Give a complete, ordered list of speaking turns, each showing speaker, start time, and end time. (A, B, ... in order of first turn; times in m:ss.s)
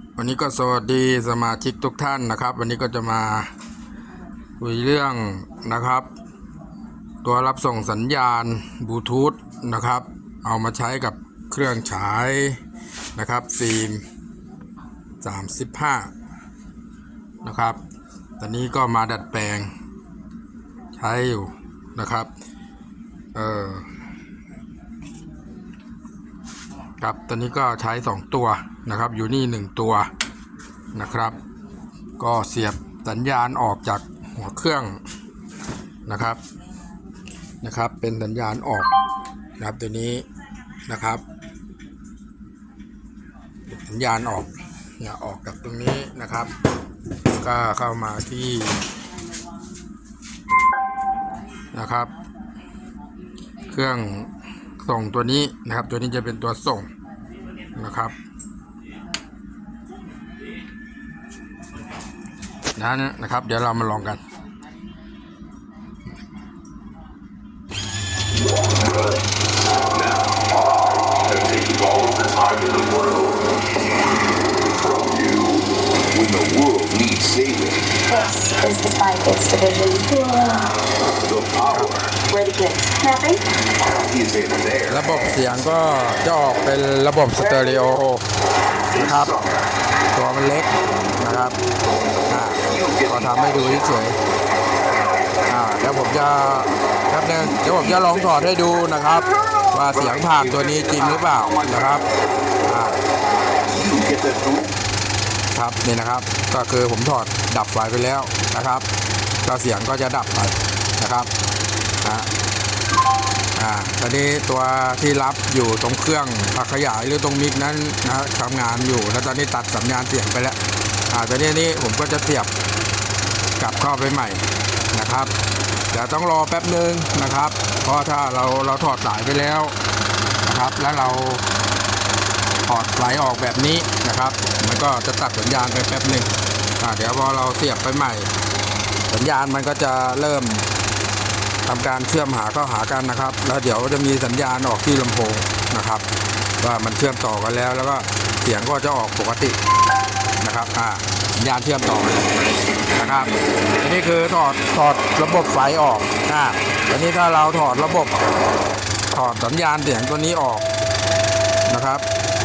0:00.2-0:03.5 A
0:04.6-0:06.1 A
0:07.2-0:12.6 A
0:13.2-0:14.0 A
0:15.2-0:16.1 A
0:17.4-0:17.8 A
0:18.4-0:19.7 A
0:21.0-0:22.3 A
0:23.4-0:23.9 A
0:27.0-0:30.1 A
0:30.9-0:31.4 A
0:32.2-0:35.0 A
0:36.1-0:36.4 A
0:37.6-0:38.9 A
0:39.6-0:40.2 A
0:40.9-0:41.2 A
0:43.7-0:46.5 A
0:47.4-0:48.8 A
0:51.7-0:52.1 A
0:53.7-0:54.3 A
0:54.8-0:56.9 A
0:57.8-0:58.2 A
1:02.8-1:04.2 A
1:09.9-1:13.5 B
1:14.7-1:17.9 B
1:18.1-1:20.8 C
1:21.2-1:22.2 B
1:22.3-1:23.5 C
1:23.8-1:25.6 B
1:24.9-1:28.2 A
1:28.9-1:29.6 B
1:28.9-1:29.4 A
1:30.1-1:31.6 A
1:32.3-1:34.2 A
1:32.7-1:33.9 B
1:35.5-1:42.0 A
1:39.9-1:42.0 B
1:42.6-1:43.0 A
1:43.7-1:44.7 B
1:45.5-1:48.9 A
1:49.4-1:51.3 A
1:52.0-1:52.3 A
1:53.6-2:00.6 A
2:01.1-2:02.5 A
2:03.6-2:05.3 A
2:05.9-2:09.7 A
2:10.4-2:11.4 A
2:12.7-2:18.3 A
2:19.1-2:20.6 A
2:21.7-2:26.0 A
2:26.6-2:29.6 A
2:30.4-2:32.3 A
2:33.0-2:38.2 A
2:39.1-2:40.7 A
2:41.7-2:42.0 A